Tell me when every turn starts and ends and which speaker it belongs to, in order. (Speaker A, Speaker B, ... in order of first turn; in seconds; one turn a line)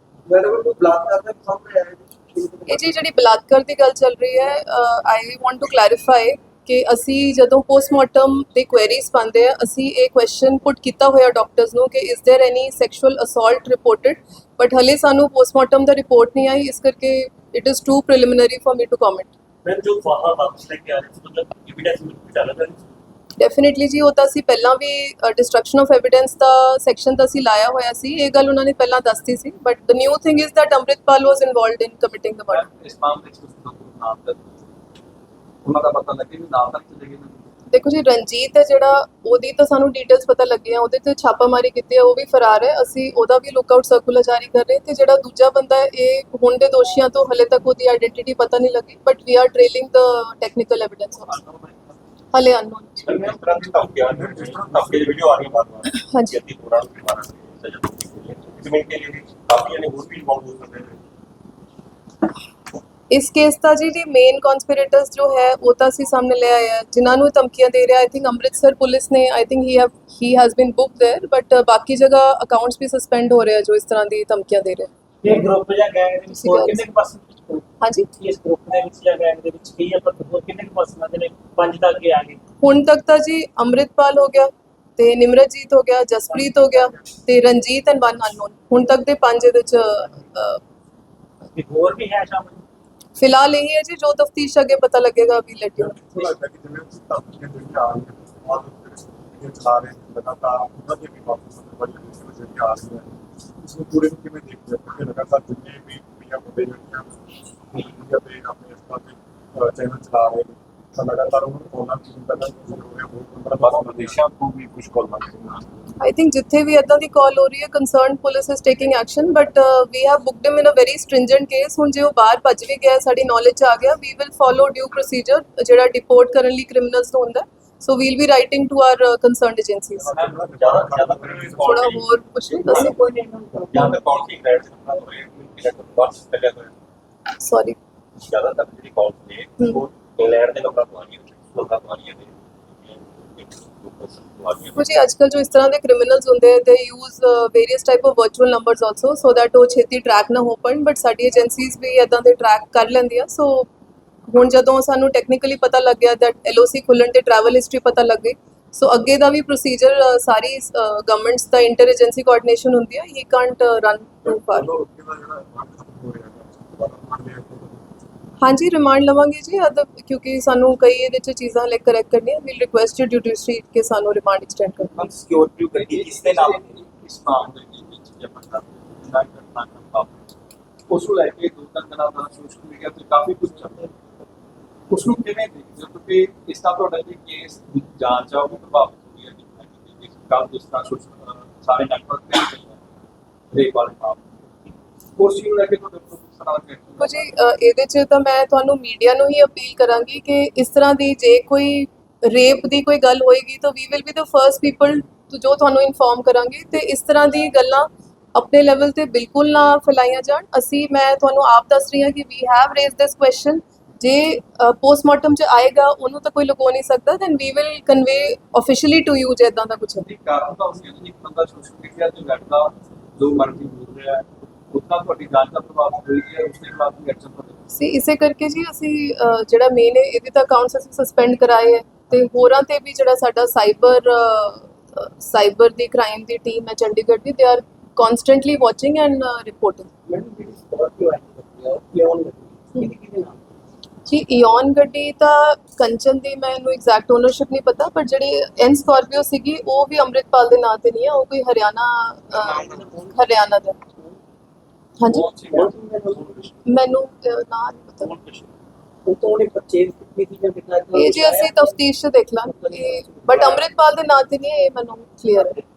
Speaker A: 0.3-2.9
Speaker B: 2.7-19.3
Speaker C: 19.6-22.8
Speaker B: 23.4-32.7
Speaker D: 32.5-34.6
Speaker D: 35.6-37.5
Speaker B: 37.7-51.4
Speaker D: 51.3-51.9
Speaker B: 52.3-53.0
Speaker C: 53.0-61.0
Speaker D: 53.0-53.6
Speaker E: 54.1-55.5
Speaker B: 55.9-56.4
Speaker B: 63.1-74.9
Speaker A: 75.2-82.4
Speaker B: 76.3-76.8
Speaker B: 77.8-78.1
Speaker B: 82.6-90.6
Speaker A: 91.5-92.6
Speaker B: 93.2-96.3
Speaker E: 95.8-107.1
Speaker E: 107.7-114.2
Speaker C: 113.6-115.6
Speaker B: 116.0-130.1
Speaker E: 130.0-131.8
Speaker D: 130.1-131.8
Speaker C: 130.5-132.9
Speaker B: 131.6-133.0
Speaker A: 132.5-134.1
Speaker C: 133.7-136.7
Speaker B: 137.4-137.8
Speaker C: 138.2-144.8
Speaker B: 144.8-153.7
Speaker B: 154.3-164.7
Speaker E: 164.2-167.9
Speaker B: 168.4-174.9
Speaker C: 175.0-176.8
Speaker D: 175.7-180.2
Speaker D: 180.9-183.9
Speaker D: 184.9-192.8
Speaker D: 193.5-194.3
Speaker D: 195.2-197.3
Speaker B: 197.0-220.1
Speaker D: 220.0-227.6
Speaker B: 227.7-239.9
Speaker A: 240.1-243.4
Speaker B: 244.1-253.8
Speaker A: 252.4-253.2
Speaker B: 255.0-255.3
Speaker A: 255.1-256.5
Speaker D: 255.2-256.5
Speaker B: 256.7-258.1
Speaker C: 258.0-258.5
Speaker A: 259.1-261.8
Speaker B: 260.9-265.6
Speaker A: 262.4-263.7